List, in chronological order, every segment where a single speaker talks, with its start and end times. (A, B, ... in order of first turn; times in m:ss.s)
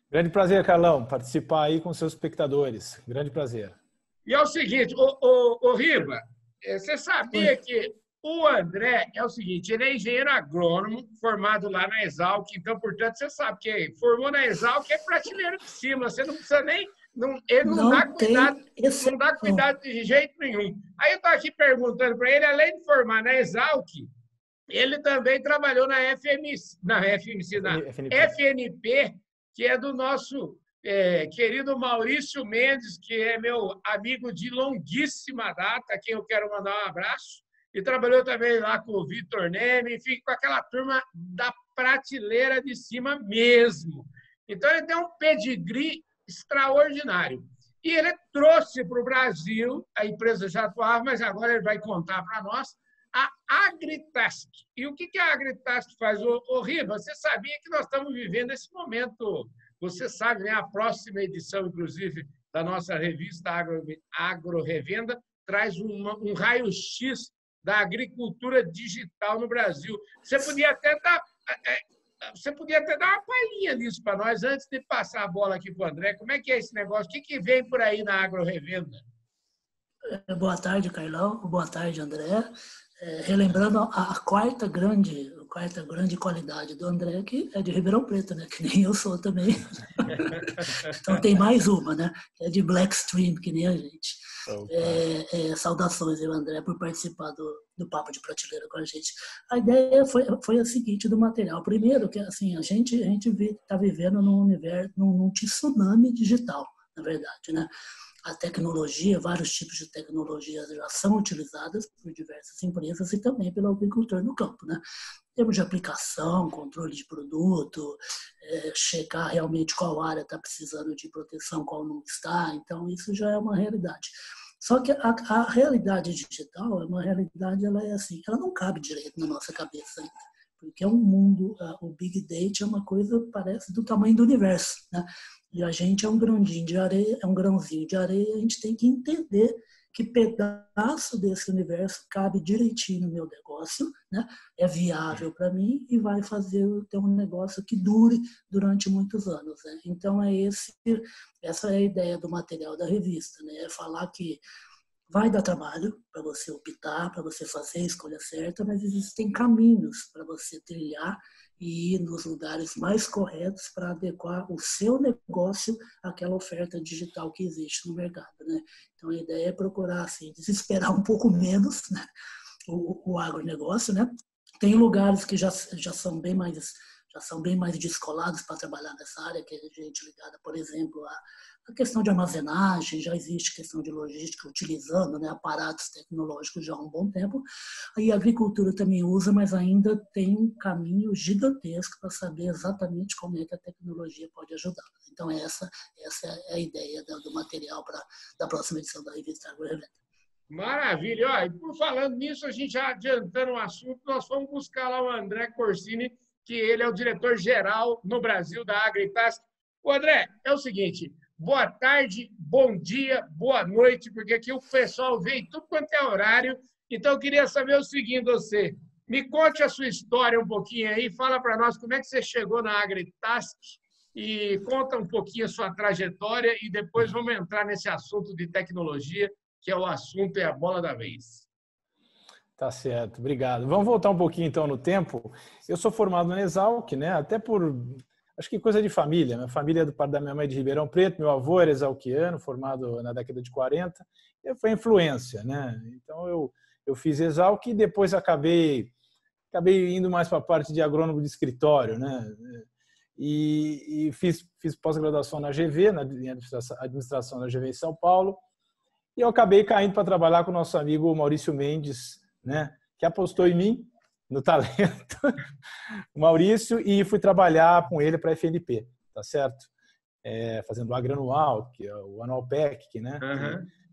0:00.1-0:03.8 A
0:04.3-0:24.1 B
0:17.6-0:19.6 C
0:24.7-1:19.0 B
0:27.6-0:28.3 A
1:20.1-1:47.7 C
1:34.5-1:35.0 A
1:48.3-1:54.8 C
1:55.4-2:34.4 C
2:35.1-2:52.0 C
2:52.7-2:54.1 C
2:54.6-3:07.4 C
3:08.0-3:20.0 C
3:20.5-3:51.5 B
3:52.6-4:08.9 A
4:09.5-4:12.7 A
4:13.2-4:18.4 A
4:19.2-4:25.4 A
4:26.2-4:29.7 A
4:30.2-4:33.6 A
4:33.2-4:33.7 B